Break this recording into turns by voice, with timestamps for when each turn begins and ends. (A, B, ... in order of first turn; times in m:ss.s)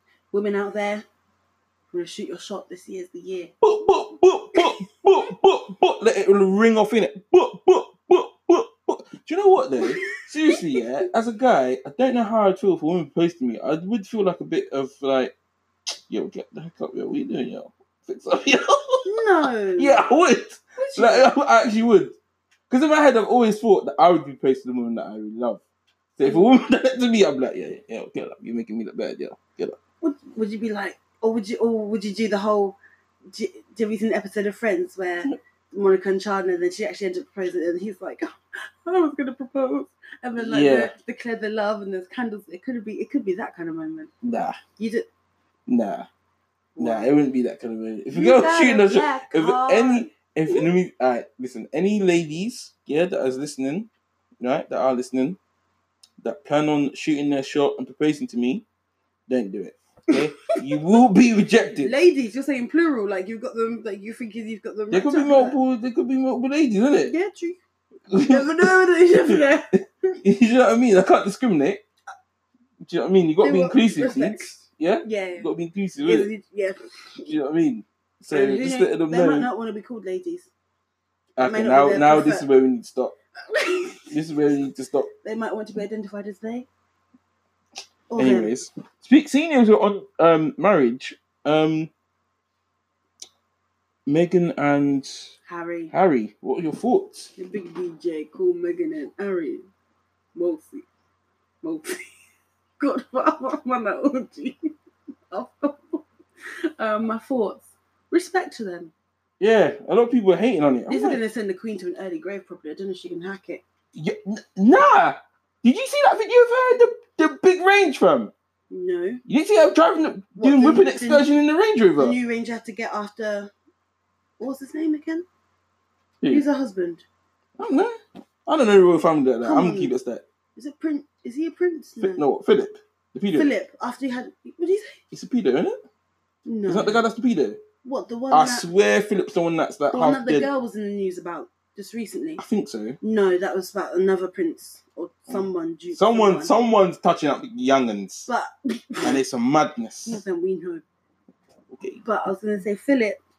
0:00.3-0:01.1 A
0:01.9-0:03.5 A
0:03.6-0:15.3 B
0:16.1-0:19.1 B
0:19.0-0:20.0 A
0:19.8-0:22.2 B
0:20.8-0:21.3 A
0:22.7-0:25.6 B
0:26.2-0:29.8 B
0:30.0-0:32.8 A
0:33.3-0:44.1 A
0:40.4-0:40.9 B
0:44.2-0:44.6 B
0:44.8-0:45.1 A
0:45.7-0:46.1 B
0:46.8-0:47.1 A
0:46.8-0:53.9 B
0:48.1-0:50.7 A
0:54.4-0:55.4 B
0:56.2-0:58.6 B
0:59.3-1:01.9 B
1:00.1-1:01.0 A
1:01.8-1:05.6 A
1:04.9-1:07.1 B
1:07.0-1:07.6 A
1:08.1-1:08.7 B
1:08.2-1:10.2 A
1:09.3-1:11.8 B
1:12.8-1:16.3 B
1:13.4-1:15.5 A
1:16.0-1:17.4 A
1:17.3-1:19.5 B
1:18.3-1:20.5 A
1:21.4-1:23.2 B
1:21.4-1:22.5 A
1:23.5-1:24.6 A
1:24.1-1:25.1 B
1:25.2-1:26.7 A
1:28.1-1:28.6 A
1:28.2-1:31.9 B
1:34.1-1:35.3 B
1:35.5-1:35.9 A
1:35.9-1:37.3 B
1:37.4-1:39.7 A
1:40.4-1:40.9 A
1:41.6-1:42.1 A
1:42.8-1:44.7 A
1:45.3-1:46.0 A
1:46.8-1:48.9 A
1:49.4-1:51.2 B
1:50.9-1:53.6 A
1:53.9-1:58.3 B
1:58.7-1:59.2 A
1:59.3-2:02.2 B
2:00.4-2:01.3 A
2:02.0-2:03.5 A
2:04.4-2:05.3 A
2:06.3-2:07.0 A
2:07.6-2:10.2 B
2:09.4-2:09.9 A
2:10.6-2:12.2 A
2:12.0-2:13.5 B
2:13.3-2:15.0 A
2:15.1-2:15.8 B
2:16.5-2:17.0 A
2:16.7-2:17.6 B
2:17.8-2:18.7 A
2:18.3-2:20.5 B
2:19.9-2:22.4 A
2:22.4-2:23.0 B
2:23.0-2:26.6 A
2:25.3-2:28.3 B
2:28.3-2:29.2 A
2:29.0-2:30.2 B
2:30.0-2:30.8 A
2:31.7-2:32.0 B
2:32.0-2:33.2 A